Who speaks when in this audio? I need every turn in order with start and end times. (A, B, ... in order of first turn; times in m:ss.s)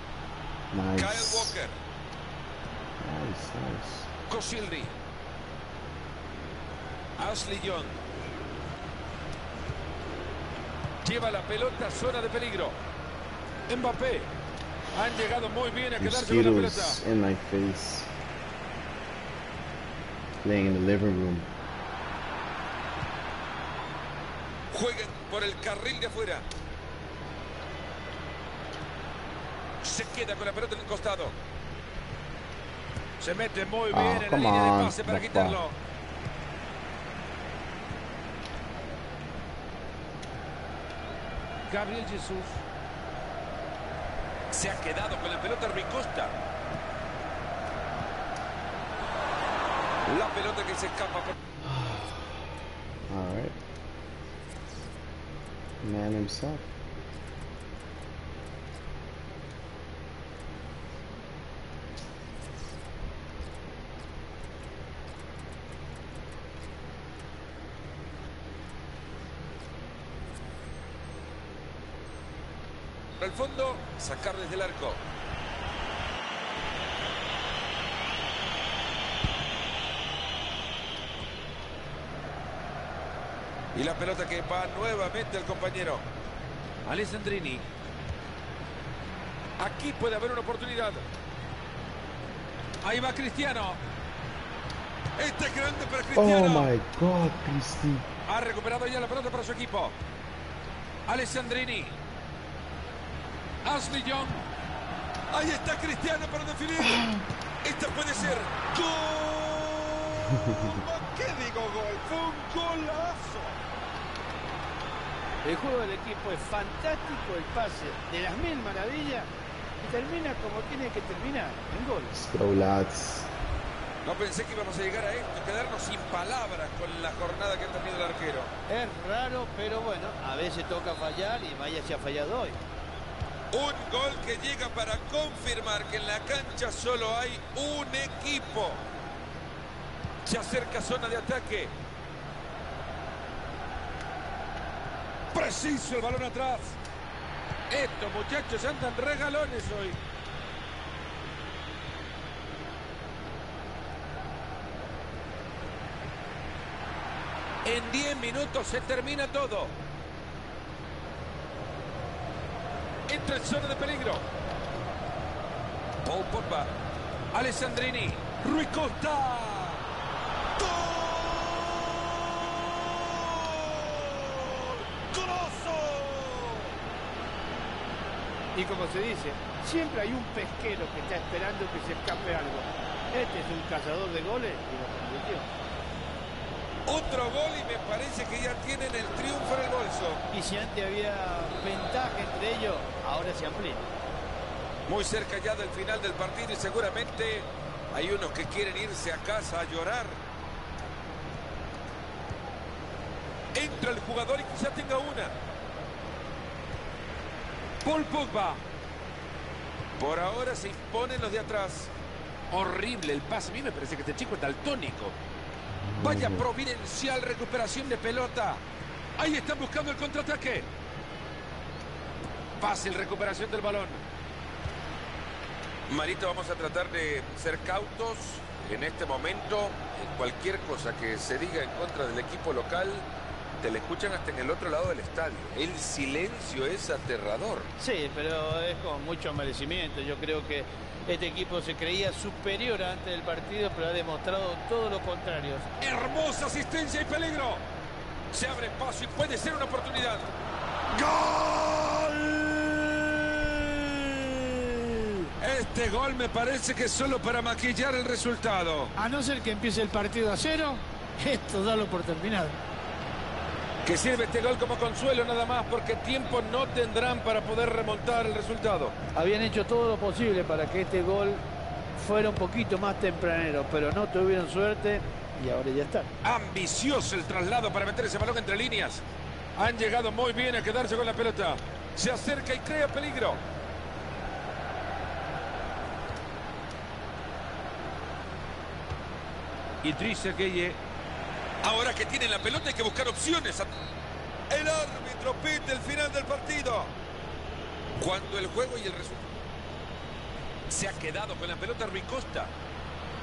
0:00.7-0:01.6 A
0:01.0-0:01.7 B
0:03.0-0:04.1 A
0:04.3-0:05.0 B
0:07.2-0:07.9 B
0:11.0-0:12.7 B
0:13.7-0:14.3 B
0:14.9-0:17.0 B
0:16.0-0:18.1 A
0:20.4-0:21.5 A
0:24.7-0:26.4 B
0:29.8-0:31.4 B
0:33.2-0:35.7 B
0:33.9-0:35.6 A
0:41.7-0:42.6 B
0:44.5-0:46.3 B
0:50.1-0:51.4 B
0:51.6-0:52.4 A
0:53.1-0:53.6 A
0:55.8-0:56.7 A
1:13.2-1:15.0 B
1:23.7-1:26.0 B
1:26.8-1:27.6 B
1:29.6-1:31.0 B
1:32.8-1:33.8 B
1:35.2-1:36.7 B
1:36.1-1:38.1 A
1:38.3-1:39.9 B
1:41.1-1:41.9 B
1:43.6-1:44.4 B
1:45.3-1:53.6 B
1:46.8-1:47.2 A
1:50.4-1:50.8 A
1:55.4-1:59.3 C
1:59.8-2:02.2 C
2:02.1-2:03.3 A
2:04.0-2:08.5 B
2:08.7-2:12.6 C
2:13.5-2:18.8 B
2:20.2-2:21.7 B
2:25.3-2:26.8 B
2:27.7-2:30.0 B
2:37.6-2:39.7 B
2:43.1-2:44.2 B
2:46.0-2:46.7 B
2:47.3-2:49.8 B
2:50.6-2:56.7 B
2:58.5-3:05.5 C
3:06.8-3:10.2 B
3:10.3-3:13.9 C
3:14.9-3:20.2 B
3:23.5-3:25.3 B
3:27.8-3:28.6 B
3:30.0-3:31.9 B
3:32.5-3:35.1 B
3:35.7-3:36.5 A
3:36.0-3:38.6 B
3:39.2-3:40.7 B
3:42.6-3:44.0 B
3:45.9-3:53.0 B
3:53.6-3:57.7 B
3:57.8-4:05.7 C
4:05.8-4:07.6 B
4:08.3-4:10.3 B
4:10.9-4:18.9 B
4:19.0-4:22.6 C
4:23.8-4:28.9 B
4:29.1-4:31.4 C
4:31.9-4:36.1 C
4:36.2-4:39.0 B
4:39.6-4:43.4 B
4:49.8-4:50.8 B
4:51.6-4:53.7 B
4:54.5-4:56.9 B
4:58.0-4:59.3 B
5:00.7-5:02.5 B